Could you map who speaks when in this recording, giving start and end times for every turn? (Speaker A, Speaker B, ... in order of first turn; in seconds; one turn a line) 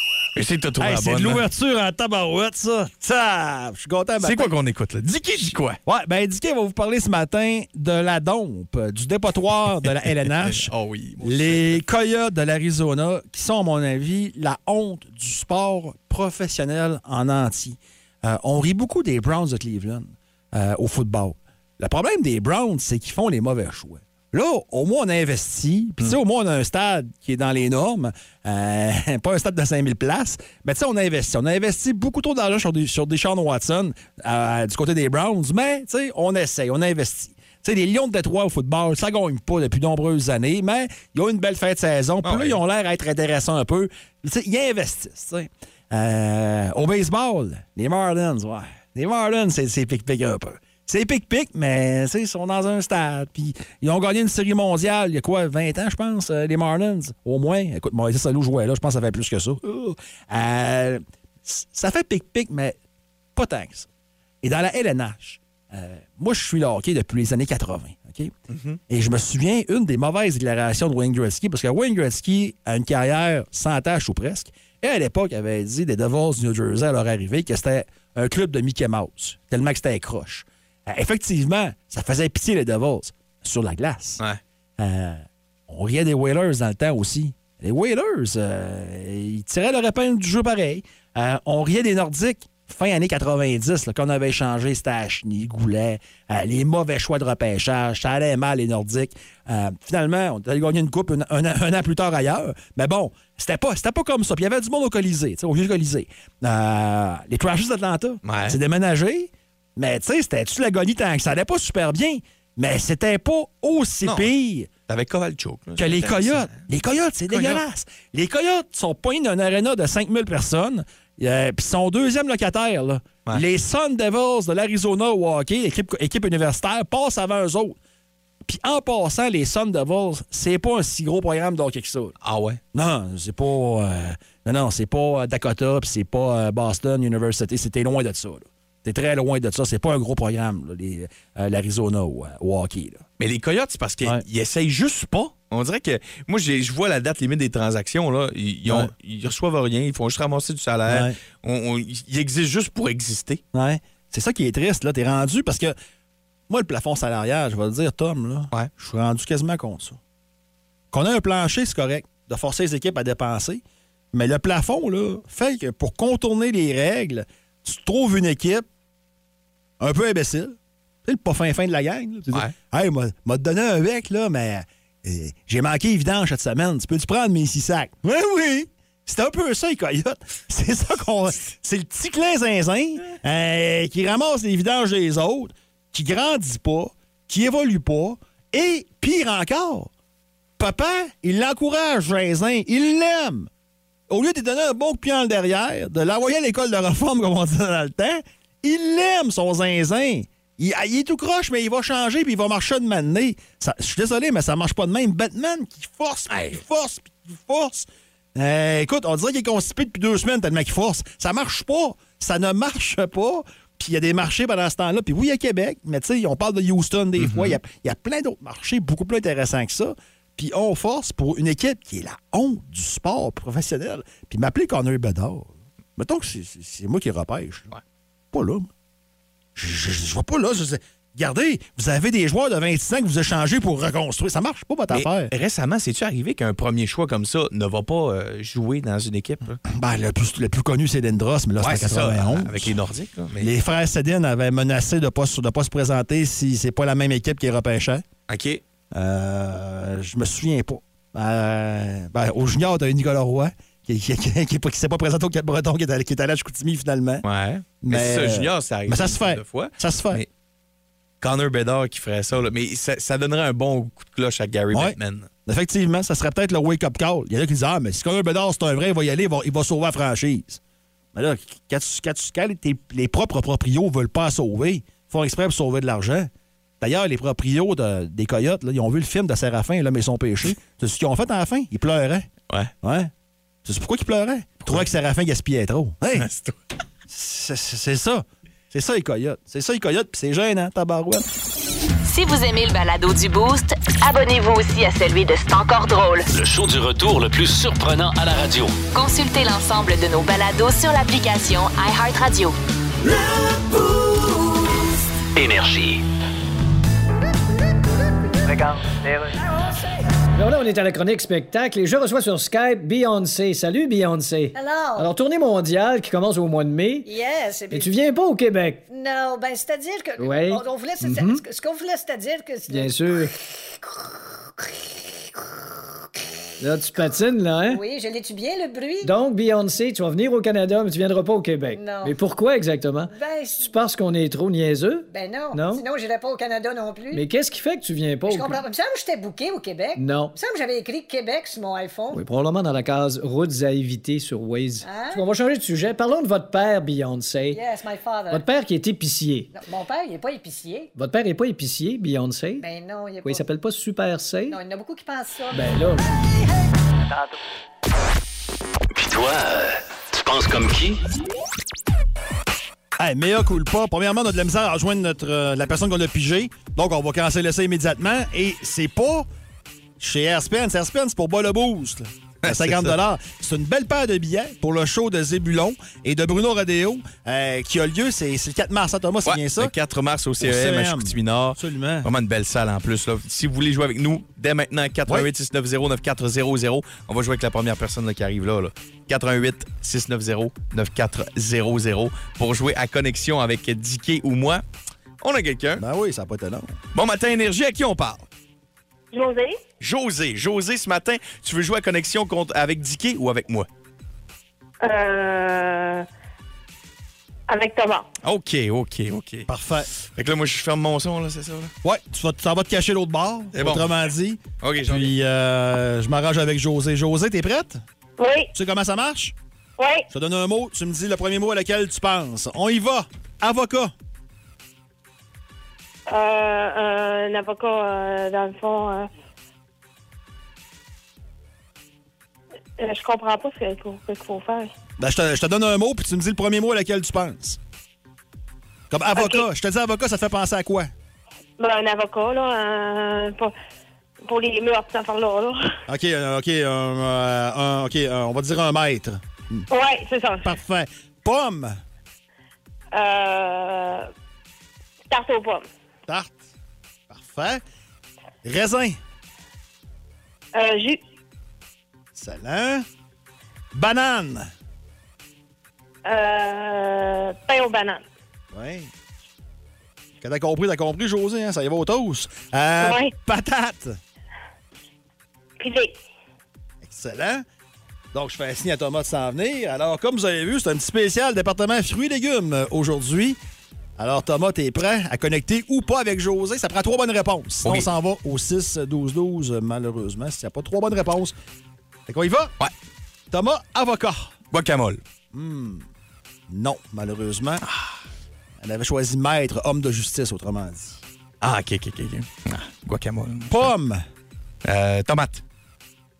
Speaker A: 0.3-1.4
Speaker B: 0.8-4.5
Speaker A: 4.2-5.8
Speaker B: 5.3-62.8
Speaker A: 10.3-11.8
Speaker A: 42.2-42.6
Speaker B: 63.4-63.9
Speaker B: 64.4-68.3
Speaker A: 68.5-68.8
Speaker B: 68.9-84.2
Speaker B: 84.8-114.7
Speaker A: 108.2-108.6
Speaker A: 114.0-114.3
Speaker A: 114.9-116.6
Speaker B: 115.8-127.8
Speaker A: 117.3-117.6
Speaker B: 128.4-132.1
Speaker A: 132.2-132.6
Speaker B: 132.7-143.0
Speaker A: 143.2-153.4
Speaker B: 148.7-148.9
Speaker B: 150.9-151.2
Speaker B: 153.5-155.8
Speaker B: 156.5-160.0
Speaker B: 160.9-163.6
Speaker B: 164.1-168.7
Speaker B: 169.8-170.5
Speaker B: 171.0-189.9
Speaker B: 190.6-193.5
Speaker B: 194.1-227.7
Speaker A: 217.2-217.6
Speaker B: 228.3-228.7
Speaker B: 229.6-235.3
Speaker A: 234.9-239.6
Speaker B: 239.7-242.8
Speaker A: 241.6-243.5
Speaker B: 243.4-248.1
Speaker A: 248.3-248.6
Speaker B: 248.9-257.3
Speaker A: 257.2-260.3
Speaker B: 257.8-260.2
Speaker A: 261.2-265.3
Speaker B: 264.7-270.6
Speaker B: 271.1-282.3
Speaker B: 282.8-283.1
Speaker B: 283.6-286.3
Speaker A: 286.1-286.6
Speaker B: 287.1-291.2
Speaker C: 292.0-296.3
Speaker D: 296.3-298.8
Speaker C: 298.9-302.6
Speaker D: 305.4-306.0
Speaker E: 310.4-317.1
Speaker F: 314.6-315.1
Speaker F: 317.1-317.9
Speaker E: 317.7-318.8
Speaker F: 318.9-323.3
Speaker E: 320.2-321.4
Speaker E: 322.7-323.3
Speaker E: 326.6-327.8
Speaker F: 327.7-329.1
Speaker E: 329.0-335.9
Speaker F: 331.7-332.1
Speaker F: 333.1-333.7
Speaker F: 335.1-337.2
Speaker E: 337.1-338.6
Speaker F: 338.3-342.2
Speaker E: 340.0-340.4
Speaker E: 342.1-347.6
Speaker F: 344.8-345.2
Speaker F: 347.5-348.4
Speaker E: 348.3-349.5
Speaker F: 349.5-350.9
Speaker E: 350.9-352.6
Speaker F: 352.6-353.4
Speaker E: 353.2-354.6
Speaker F: 354.5-355.9
Speaker E: 355.5-356.1
Speaker D: 358.9-361.0
Speaker B: 363.0-369.3
Speaker B: 370.0-379.7
Speaker A: 372.4-372.9
Speaker A: 379.2-394.6
Speaker B: 380.4-382.1
Speaker A: 395.2-395.8
Speaker B: 395.8-396.8
Speaker A: 396.9-398.3
Speaker G: 399.1-399.6
Speaker A: 399.8-403.7
Speaker G: 404.8-406.1
Speaker G: 407.5-408.1
Speaker A: 408.2-411.7
Speaker B: 409.5-409.9
Speaker B: 411.8-417.8
Speaker A: 413.5-413.9
Speaker A: 414.6-415.1
Speaker G: 418.2-418.5
Speaker B: 418.6-419.4
Speaker G: 419.8-420.1
Speaker B: 420.1-423.9
Speaker G: 426.1-429.1
Speaker G: 432.8-434.7
Speaker B: 435.0-437.6
Speaker B: 438.9-440.9
Speaker G: 439.1-439.4
Speaker G: 441.6-443.5
Speaker G: 444.2-445.6
Speaker B: 445.9-449.6
Speaker G: 449.7-450.5
Speaker B: 450.4-451.8
Speaker G: 452.9-454.1
Speaker G: 455.1-455.7
Speaker B: 456.1-456.4
Speaker B: 457.1-457.6
Speaker B: 458.4-459.0
Speaker G: 460.5-461.0
Speaker B: 462.1-462.9
Speaker B: 463.7-464.5
Speaker G: 466.1-468.0
Speaker B: 468.5-468.9
Speaker B: 470.2-474.0
Speaker G: 472.8-473.1
Speaker G: 475.6-475.9
Speaker B: 476.8-477.4
Speaker B: 478.1-483.4
Speaker B: 484.0-491.4
Speaker B: 492.1-492.5
Speaker B: 493.3-494.3
Speaker A: 494.5-495.0
Speaker B: 495.3-495.9
Speaker B: 496.5-497.6
Speaker A: 497.6-497.9
Speaker B: 498.6-501.0
Speaker A: 501.4-503.7
Speaker B: 503.5-504.1
Speaker A: 504.6-505.4